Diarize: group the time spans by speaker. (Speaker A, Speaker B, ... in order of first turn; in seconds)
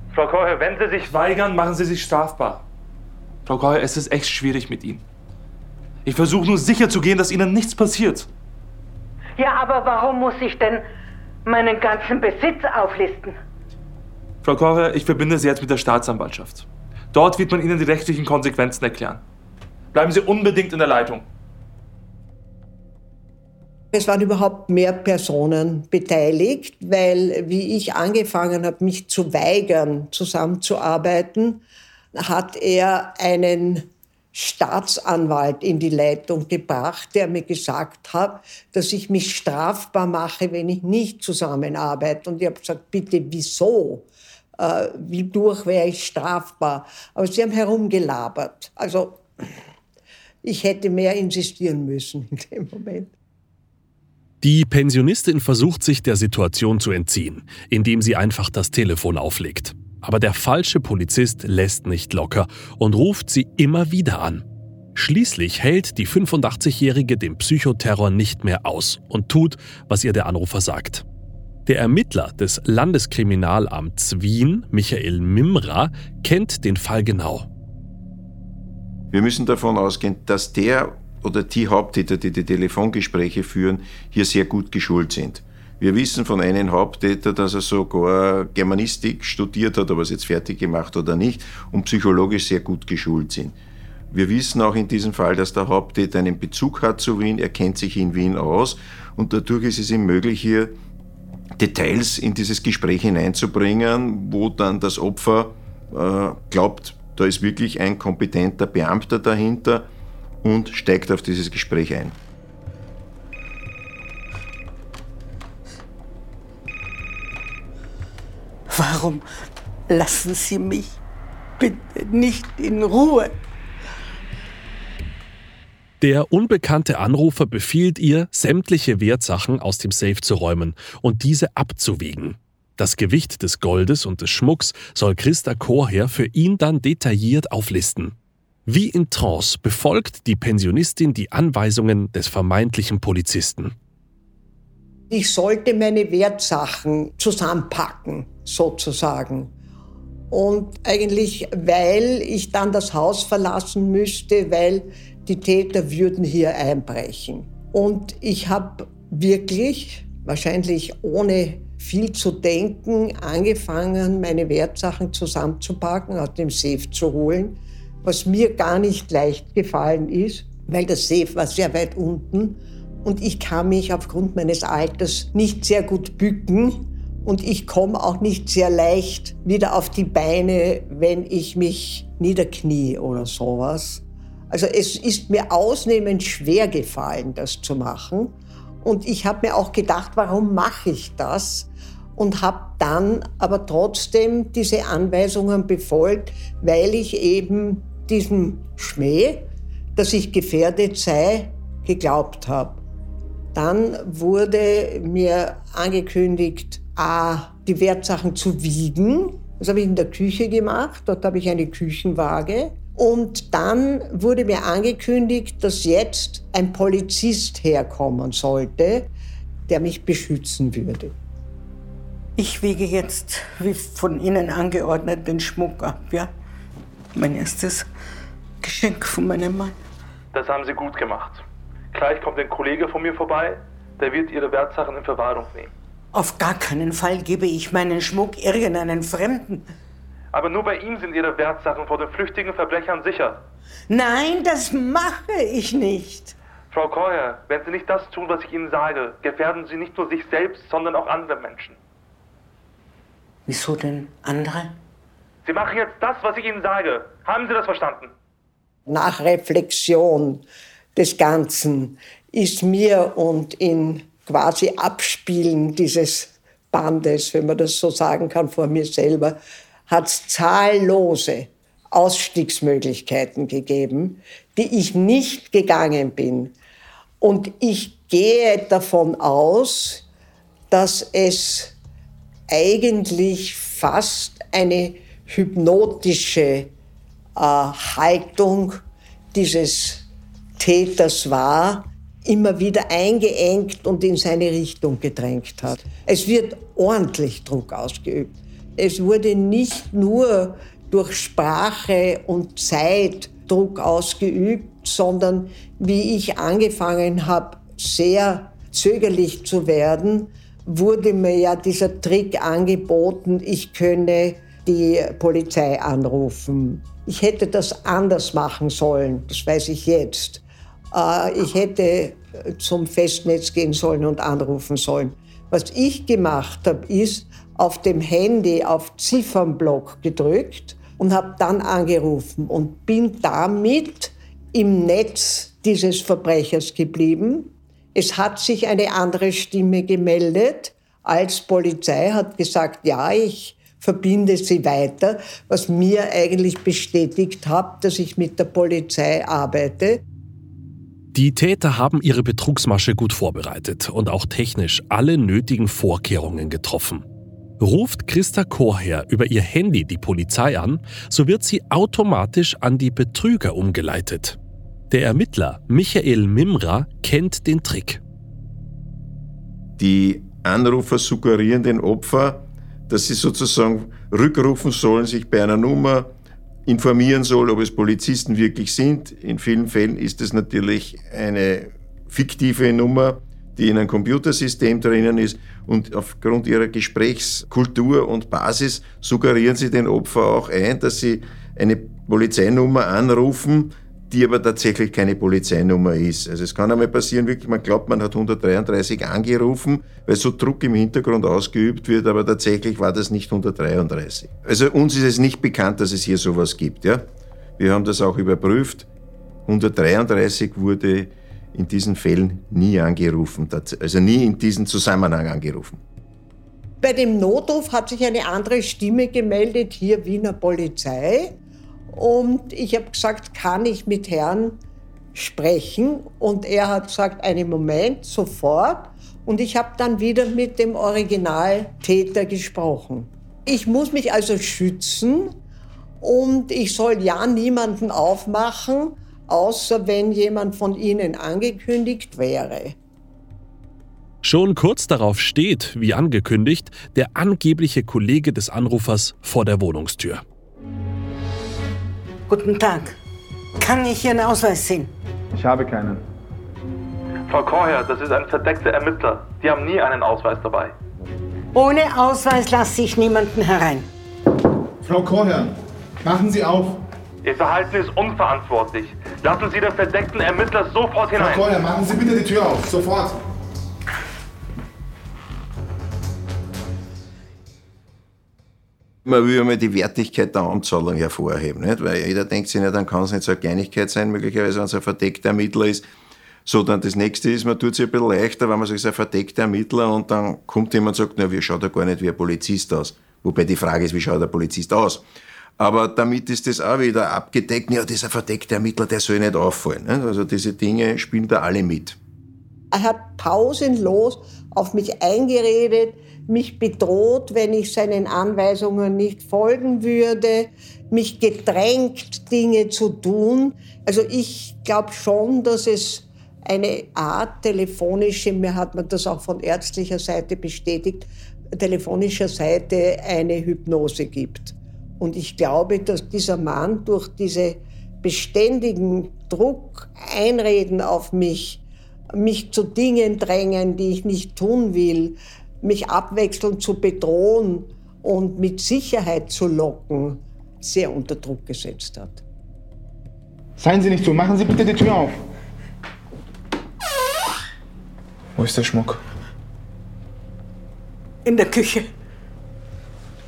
Speaker A: 0.1-2.6, 3.5-5.0, 6.0-8.3, 14.4-19.2, 19.9-21.2, 230.3-235.7, 240.3-243.4, 246.7-251.8, 255.4-258.1, 457.3-460.7, 467.2-471.5
Speaker B: 9.4-10.8, 11.4-13.4, 118.7-119.2, 119.9-121.0, 121.6-123.4, 222.4-226.3, 227.2-227.9, 228.6-229.8, 236.1-239.7, 243.9-246.4, 253.5-254.8, 452.3-453.0, 453.6-454.9, 461.5-463.9, 551.2-551.9
Speaker C: 23.9-31.6, 32.1-44.1, 44.6-49.2, 50.4-53.1, 145.1-149.5, 150.3-202.8, 203.5-219.1, 219.7-221.1, 258.9-260.4, 261.0-276.6, 277.2-280.1, 280.7-281.8, 282.5-286.7, 287.4-288.8, 289.3-290.1, 290.6-350.0, 416.8-421.4, 421.9-424.6, 425.1-435.4, 436.0-442.8, 502.7-531.6, 532.1-542.2
Speaker D: 54.4-64.4, 65.0-71.0, 71.7-77.5, 126.0-138.2, 138.7-143.7, 351.1-357.0, 357.6-364.4, 364.9-368.0, 444.2-450.2
Speaker E: 79.1-93.6, 94.1-100.8, 101.6-109.9, 110.4-112.2, 369.8-376.1, 376.7-407.1, 407.6-408.9, 409.5-415.8, 479.1-485.9, 486.5-495.0, 495.6-502.0
Speaker F: 455.3-456.0, 464.8-466.8, 471.1-473.2, 543.6-545.2, 548.4-549.0